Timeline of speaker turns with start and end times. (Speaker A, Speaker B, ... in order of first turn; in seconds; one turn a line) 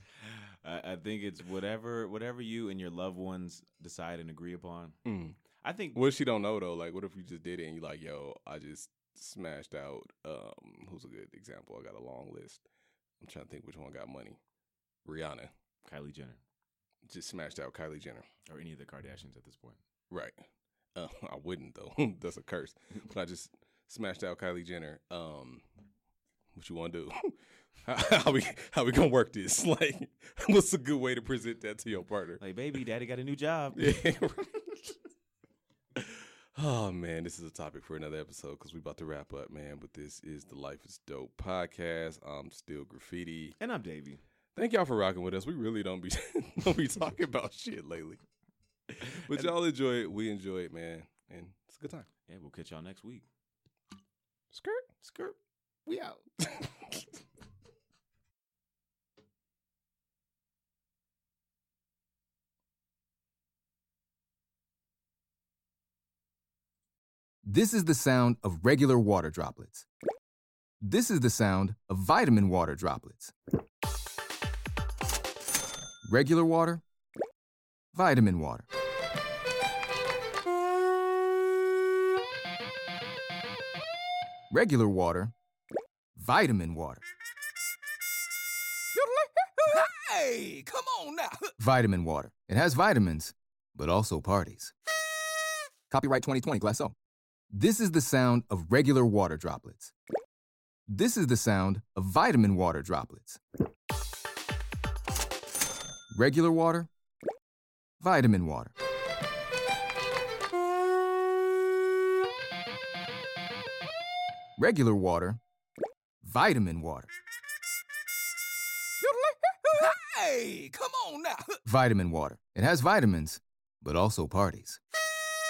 Speaker A: 0.2-5.0
Speaker B: 5.0-5.4
Speaker A: 5.6-6.0
Speaker B: 5.9-12.6
Speaker B: 13.2-14.4
Speaker B: 15.1-15.5
Speaker A: 15.8-16.4
Speaker B: 17.1-18.3
Speaker A: 18.5-19.8
Speaker B: 20.1-25.6
Speaker B: 26.6-32.4
Speaker A: 32.4-33.9
Speaker B: 33.8-34.9
Speaker B: 36.0-43.6
Speaker A: 43.6-44.2
Speaker B: 44.5-48.2
Speaker B: 48.9-52.1
Speaker A: 49.0-49.5
Speaker A: 52.3-53.3
Speaker B: 54.5-54.8
Speaker A: 55.0-56.2
Speaker B: 56.4-57.0
Speaker C: 67.4-69.9
Speaker C: 70.8-73.3
Speaker C: 76.0-76.8
Speaker C: 77.9-78.7
Speaker C: 84.5-85.3
Speaker C: 86.2-87.0
Speaker C: 89.0-94.7
Speaker C: 95.9-97.0
Speaker C: 97.5-99.9
Speaker C: 100.9-103.4
Speaker C: 106.1-106.9
Speaker C: 108.0-108.7
Speaker C: 114.6-115.4
Speaker C: 116.2-117.1
Speaker C: 119.0-124.8